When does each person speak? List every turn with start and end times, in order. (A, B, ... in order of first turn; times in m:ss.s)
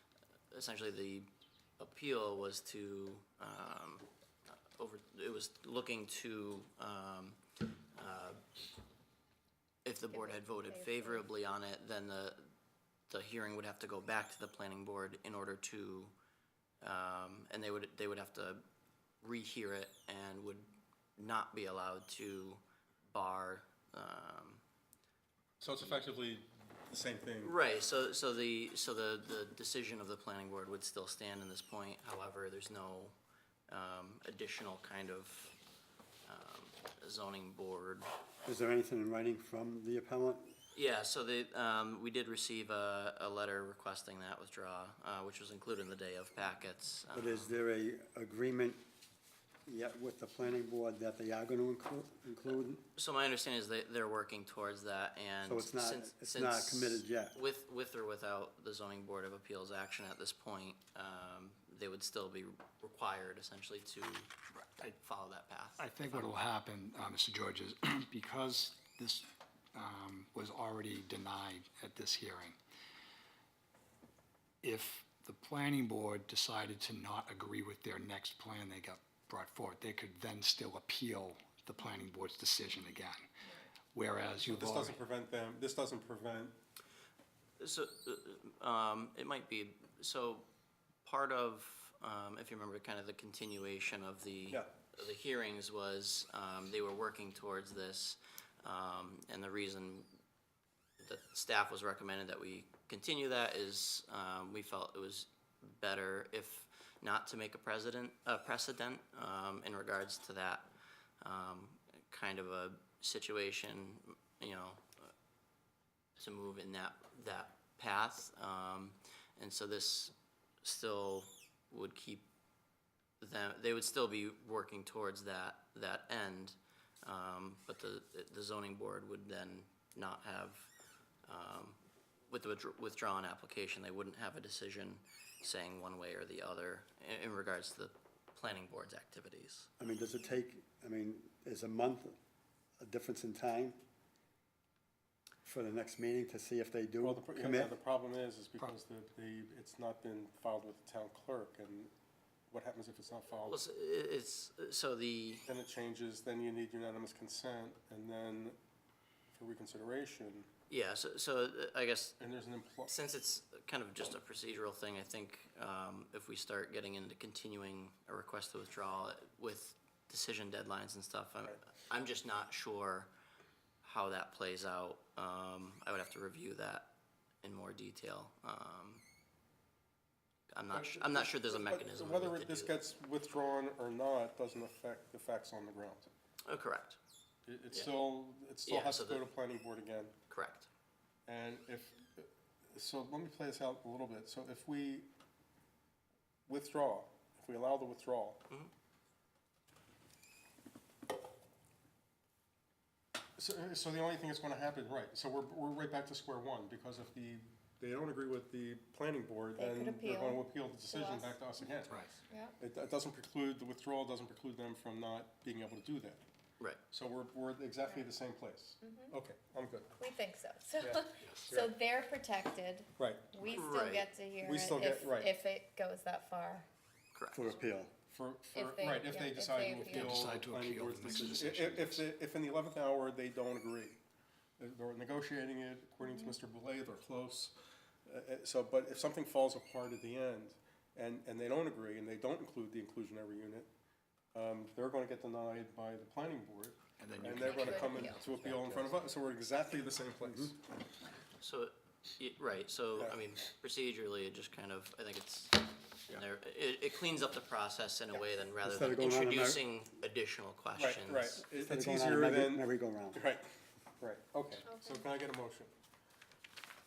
0:00.5-0:01.3 A
0:01.8-0:04.1 A
0:04.8-0:07.4 A
0:08.0-0:08.4 A
0:09.8-0:12.5 A
0:10.1-0:11.2 B
0:13.1-0:16.1 A
0:16.8-0:18.6 A
0:19.2-0:24.6 A
0:25.6-0:27.5 C
0:27.4-0:33.2 A
0:33.7-0:35.6 A
0:36.3-0:38.1 A
0:38.4-0:40.5 D
0:40.8-0:47.5 A
0:47.1-0:48.8 D
0:49.7-0:52.8 D
0:52.8-1:06.3 A
0:55.4-0:57.4 D
1:05.8-1:12.6 E
1:14.6-1:23.3 E
1:23.9-1:25.0 E
1:24.4-1:26.6 C
1:27.6-1:30.5 A
1:31.0-1:40.1 A
1:41.0-1:55.1 A
1:56.2-2:02.3 A
2:03.2-2:10.7 A
2:11.3-2:11.8 A
2:12.3-2:19.7 A
2:19.8-2:22.2 D
2:22.8-2:23.8 D
2:25.4-2:27.8 D
2:27.0-2:31.9 C
2:32.5-2:33.6 C
2:33.5-2:35.5 A
2:35.5-2:38.6 C
2:39.3-2:40.5 C
2:40.7-2:42.2 A
2:42.2-2:42.9 C
2:42.9-2:53.1 A
2:53.8-2:59.0 A
3:00.5-3:02.8 A
3:00.7-3:06.1 C
3:06.5-3:07.0 A
3:07.5-3:10.1 C
3:08.7-3:09.2 A
3:10.3-3:10.7 A
3:11.3-3:15.1 C
3:16.5-3:18.4 C
3:23.4-3:32.1 C
3:29.6-3:31.6 B
3:31.9-3:32.1 E
3:32.3-3:32.6 B
3:32.6-3:36.2 C
3:36.9-3:40.0 C
3:38.8-3:39.2 B
3:40.0-3:46.7 B
3:40.8-3:41.7 C
3:41.2-3:41.5 E
3:43.0-3:43.3 C
3:43.4-3:44.1 A
3:44.4-3:45.3 C
3:47.1-3:47.5 A
3:47.3-3:47.9 D
3:48.1-3:54.0 C
3:48.5-3:50.2 B
3:49.9-3:52.1 E
3:50.4-3:51.4 D
3:54.6-4:03.7 C
3:56.0-3:56.4 B
4:04.3-4:10.6 C
4:07.0-4:09.0 E
4:07.3-4:08.2 B
4:11.4-4:21.4 A
4:18.6-4:19.6 D
4:20.8-4:23.5 C
4:21.5-4:23.2 D
4:24.0-4:25.7 C
4:24.6-4:25.1 B